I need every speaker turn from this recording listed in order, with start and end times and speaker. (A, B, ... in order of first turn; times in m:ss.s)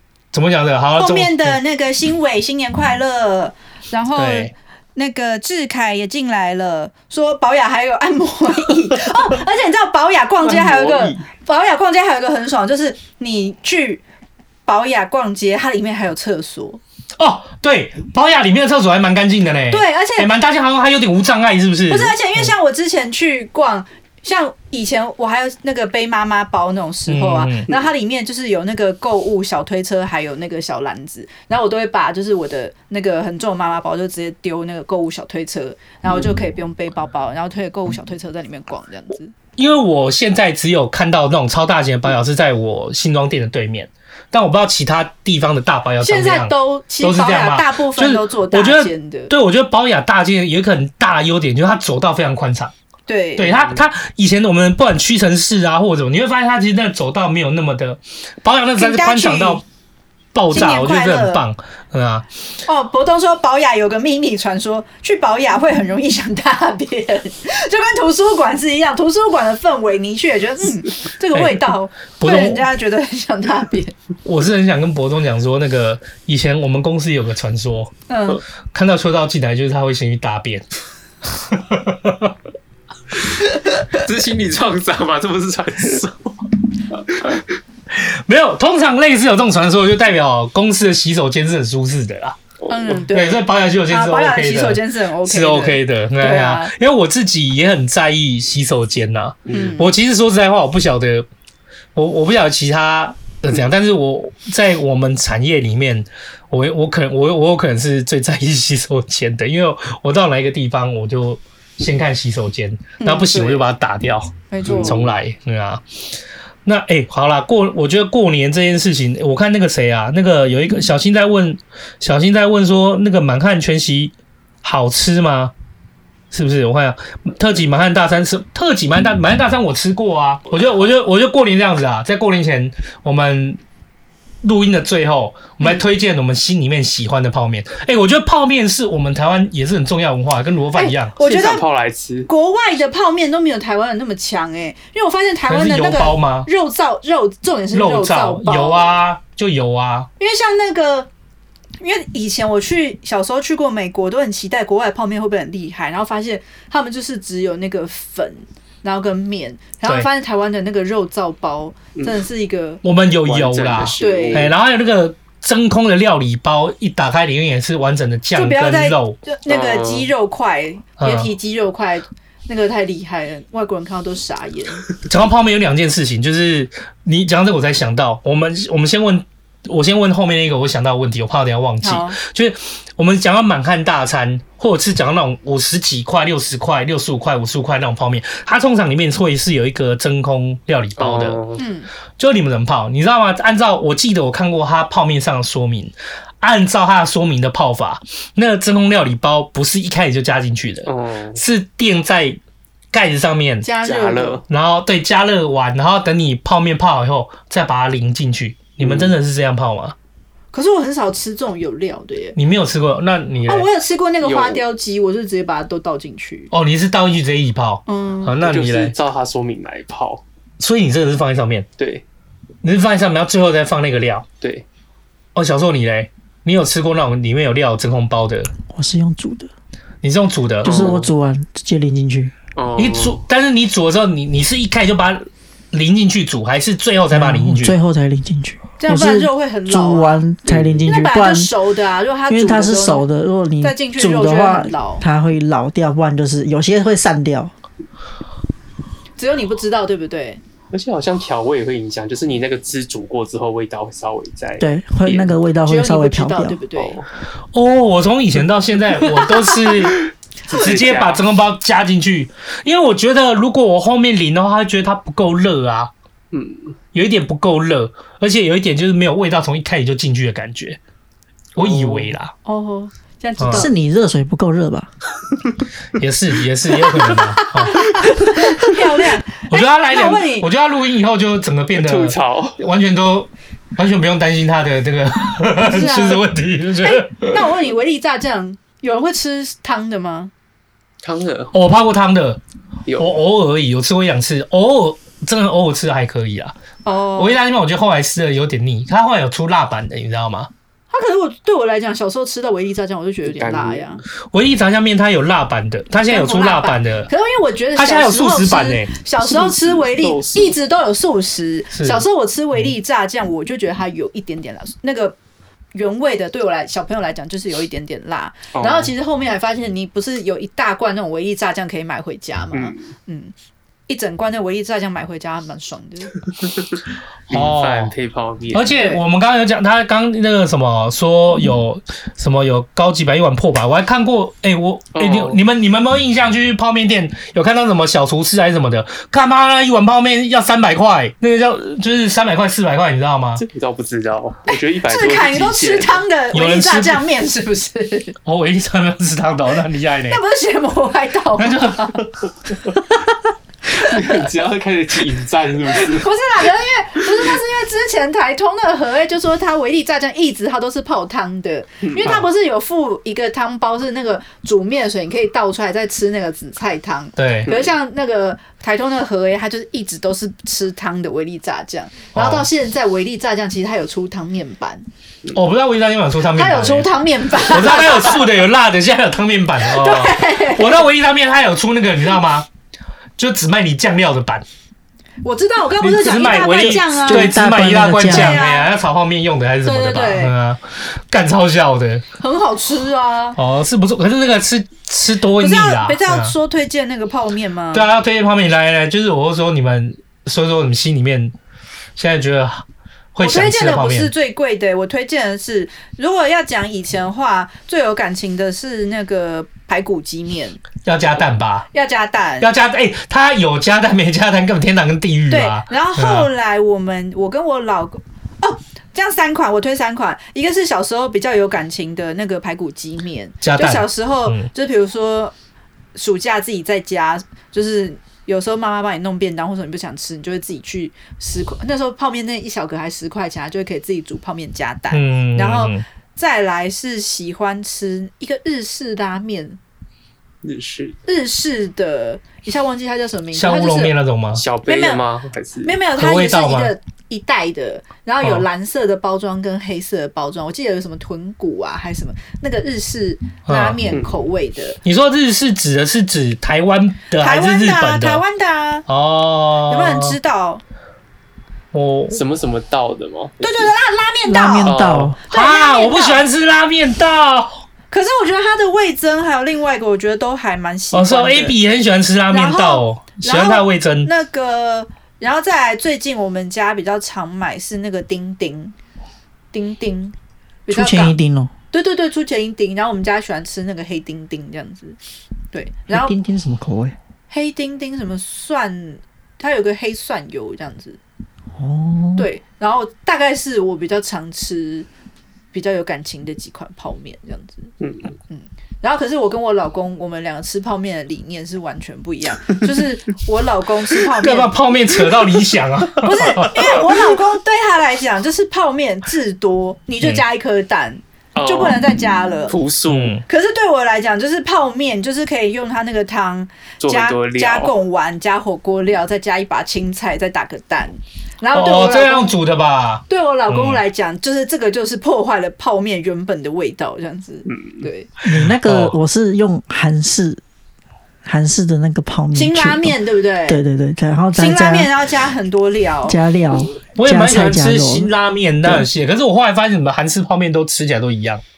0:00.3-0:01.6 A
0:01.0-0:14.0 B
0:04.2-0:04.5 A
0:10.4-0:11.2 C
0:14.7-0:16.8 B
0:17.2-0:22.5 A
0:19.7-0:20.3 B
0:21.9-0:39.3 B
0:27.1-0:27.7 A
0:39.6-0:52.7 A
0:46.0-0:49.3 B
0:53.1-0:53.6 B
0:53.4-0:59.6 A
0:53.5-0:53.8 C
0:58.8-0:59.6 B
1:00.3-1:02.2 A
1:00.5-1:01.4 B
1:02.7-1:14.0 B
1:11.3-1:12.7 A
1:14.2-1:17.9 A
1:18.1-1:18.4 B
1:18.7-1:20.6 A
1:21.5-1:22.3 A
1:23.8-1:27.4 C
1:27.9-1:32.4 A
1:32.6-1:33.0 C
1:32.7-1:36.7 B
1:33.1-1:41.3 A
1:39.5-1:39.7 C
1:39.5-1:39.9 B
1:42.0-1:55.8 A
1:53.0-1:53.7 B
1:54.5-1:55.0 B
1:54.7-1:55.1 C
1:56.6-2:05.5 A
2:06.3-2:13.6 A
2:14.4-2:21.2 A
2:20.8-2:21.7 B
2:21.2-2:22.3 C
2:22.3-2:29.0 B
2:25.5-2:26.5 A
2:27.7-2:30.1 A
2:30.2-2:31.1 B
2:31.8-2:42.8 B
2:42.8-2:49.2 A
2:43.3-2:44.5 C
2:44.0-2:44.5 B
2:48.3-2:54.8 B
2:49.5-2:50.1 C
2:51.0-2:51.3 A
2:55.1-3:11.4 A
3:01.8-3:02.2 B
3:11.0-3:11.6 C
3:11.6-3:11.9 B
3:12.2-3:22.4 A
3:20.9-3:21.4 C
3:22.9-3:23.7 A
3:23.6-3:24.4 B
3:23.8-3:24.4 C
3:24.5-3:30.0 A
3:28.8-3:29.2 C
3:30.5-3:32.4 B
3:32.4-3:33.7 A
3:33.5-3:36.5 B
3:34.2-3:34.6 C
3:36.5-3:39.0 A
3:37.9-3:38.4 B
3:38.4-3:40.2 C
3:40.6-3:41.7 A
3:41.8-3:42.0 C
3:42.6-3:44.3 A
3:45.4-3:48.5 A
3:48.7-3:49.5 D
3:50.0-3:50.9 A
3:50.6-3:51.1 C
3:50.6-3:52.3 D
3:52.6-3:53.2 C
3:52.8-3:57.8 A
3:57.1-4:01.5 D
3:58.8-4:00.2 B
4:00.5-4:00.9 C
4:00.9-4:03.1 B
4:02.3-4:07.5 D
4:03.6-4:05.0 B
4:09.2-4:10.4 B
4:10.7-4:15.3 C
4:14.6-4:16.6 D
4:15.7-4:17.0 B
4:16.8-4:17.1 C
4:17.5-4:25.9 A
4:20.5-4:21.2 C
4:26.3-4:26.8 C
4:26.9-4:30.8 A
4:31.6-4:32.3 A
4:31.6-4:32.2 C
4:32.4-4:33.7 B
4:33.4-4:33.7 A
4:33.5-4:34.9 D
4:36.0-4:38.1 A
4:37.4-4:40.5 B
4:39.4-4:47.5 A
4:41.8-4:42.6 C
4:45.6-4:46.3 B
4:46.8-4:50.3 B
4:51.0-4:51.5 C
4:51.5-4:52.4 A
4:52.9-4:53.2 C
4:53.0-4:56.6 A
4:56.8-4:57.4 B
4:57.2-5:00.5 A
5:00.9-5:04.0 B
5:03.3-5:04.0 C
5:04.3-5:07.1 A
5:06.1-5:15.2 B
5:07.8-5:09.0 A
5:09.2-5:10.6 C
5:11.7-5:12.0 A
5:15.7-5:23.3 B
5:18.5-5:18.9 C
5:22.5-5:22.9 C
5:23.9-5:26.1 B
5:27.3-5:28.9 C
5:27.3-5:28.0 A
5:28.5-5:43.4 A
5:35.0-5:35.4 C
5:43.4-5:46.0 C
5:44.5-5:48.2 B
5:46.3-5:47.0 A
5:48.2-5:50.2 A
5:50.1-5:52.0 B
5:51.4-5:52.2 A
5:53.8-5:56.1 C
5:55.8-6:14.8 B
6:02.0-6:02.3 A
6:07.2-6:07.5 A
6:12.2-6:12.5 A
6:15.3-6:22.5 A
6:16.3-6:18.2 B
6:19.6-6:20.8 B
6:23.2-6:24.4 A
6:25.2-6:27.4 B
6:25.8-6:32.0 A
6:27.1-6:28.4 D
6:28.1-6:28.7 B
6:29.6-6:30.3 B
6:32.2-6:33.4 B
6:33.4-6:36.3 A
6:35.4-6:37.9 B
6:37.7-6:41.3 A
6:42.0-6:44.1 A
6:43.2-6:50.6 B
6:50.8-6:51.7 A
6:51.7-6:52.5 B
6:52.4-6:56.3 A
6:55.3-7:05.3 B
7:03.4-7:04.5 A
7:06.0-7:19.6 B
7:14.9-7:15.8 A
7:20.4-7:21.0 C
7:21.1-7:24.0 B
7:23.3-7:24.4 A
7:24.3-7:25.8 C
7:24.6-7:25.0 B
7:25.6-7:34.8 B
7:25.9-7:26.8 A
7:33.5-7:33.9 A
7:34.8-7:38.2 A
7:37.2-7:38.9 B
7:38.9-7:40.2 A
7:39.7-7:40.6 B
7:41.7-7:42.2 A
7:42.1-7:43.7 C
7:43.4-7:44.8 B
7:44.3-7:45.2 D
7:44.6-7:45.2 C
7:45.2-7:47.6 A
7:45.3-7:46.2 B
7:47.9-7:51.6 B
7:50.9-7:54.1 A
7:52.3-7:58.7 B
7:59.5-8:00.2 B
8:00.7-8:01.2 B
8:00.7-8:01.5 D
8:01.7-8:05.0 B
8:05.5-8:06.1 B
8:05.9-8:07.0 D
8:07.3-8:11.0 B
8:11.6-8:12.3 D
8:12.2-8:14.9 B
8:15.5-8:17.7 B
8:17.8-8:18.2 C
8:18.3-8:24.6 B
8:24.2-8:26.9 A
8:26.0-8:32.6 B
8:31.4-8:31.9 C
8:32.5-8:33.2 C
8:32.9-8:33.2 A
8:33.3-8:42.4 B
8:36.8-8:37.7 C
8:41.5-8:43.8 A
8:43.1-8:48.1 B
8:48.2-8:50.4 D
8:48.3-8:49.0 A
8:51.2-8:54.9 D
8:52.3-8:53.6 B
8:54.4-8:56.2 B
8:56.1-8:58.1 D
8:57.0-9:01.4 A